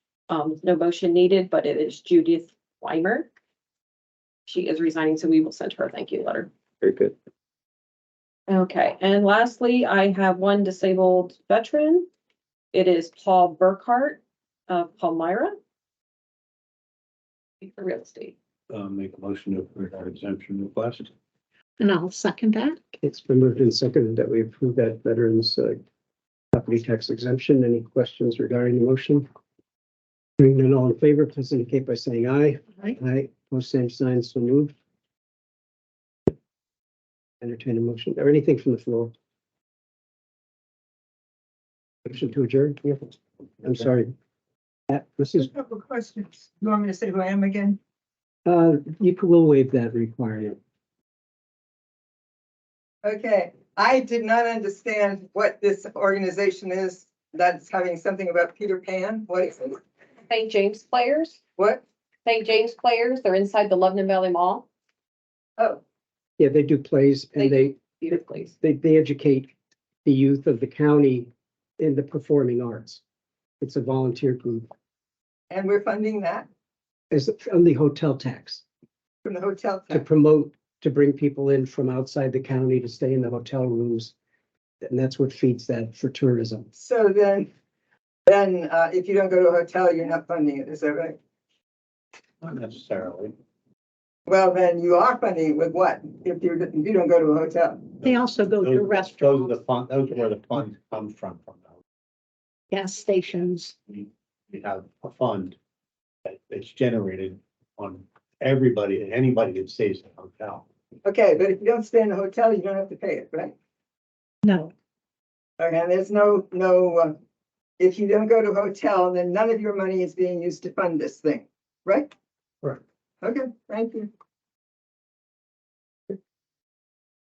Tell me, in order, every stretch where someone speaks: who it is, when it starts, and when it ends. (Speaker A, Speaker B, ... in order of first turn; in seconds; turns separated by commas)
Speaker A: 0.3-3.3, Speaker A: 4.5-6.5, Speaker A: 8.5-12.1, Speaker A: 12.7-15.6, Speaker A: 17.6-18.4, Speaker B: 18.7-21.1, Speaker C: 21.8-22.8, Speaker D: 23.0-25.8, Speaker D: 26.5-29.3, Speaker D: 30.4-34.7, Speaker D: 37.4-39.1, Speaker D: 42.0-43.1, Speaker D: 43.6-44.1, Speaker D: 44.9-45.5, Speaker E: 45.4-47.8, Speaker D: 48.5-50.6, Speaker E: 53.0-59.8, Speaker A: 60.3-61.4, Speaker E: 61.6-61.8, Speaker A: 62.2-64.6, Speaker D: 66.4-67.8, Speaker A: 67.4-68.5, Speaker D: 68.6-69.5, Speaker D: 70.0-71.3, Speaker D: 71.8-73.0, Speaker D: 73.6-74.7, Speaker E: 75.5-76.5, Speaker D: 77.1-78.6, Speaker E: 79.2-80.0, Speaker D: 79.9-84.1, Speaker D: 84.8-86.7, Speaker E: 86.8-87.5, Speaker E: 88.2-91.2, Speaker B: 92.4-93.3, Speaker E: 94.3-98.0, Speaker C: 98.0-99.5, Speaker B: 98.0-101.7, Speaker C: 102.7-103.7, Speaker B: 103.9-105.6, Speaker B: 106.2-110.6, Speaker E: 111.0-113.5, Speaker C: 114.5-114.7, Speaker E: 115.6-117.2, Speaker E: 117.8-122.1, Speaker E: 123.2-124.1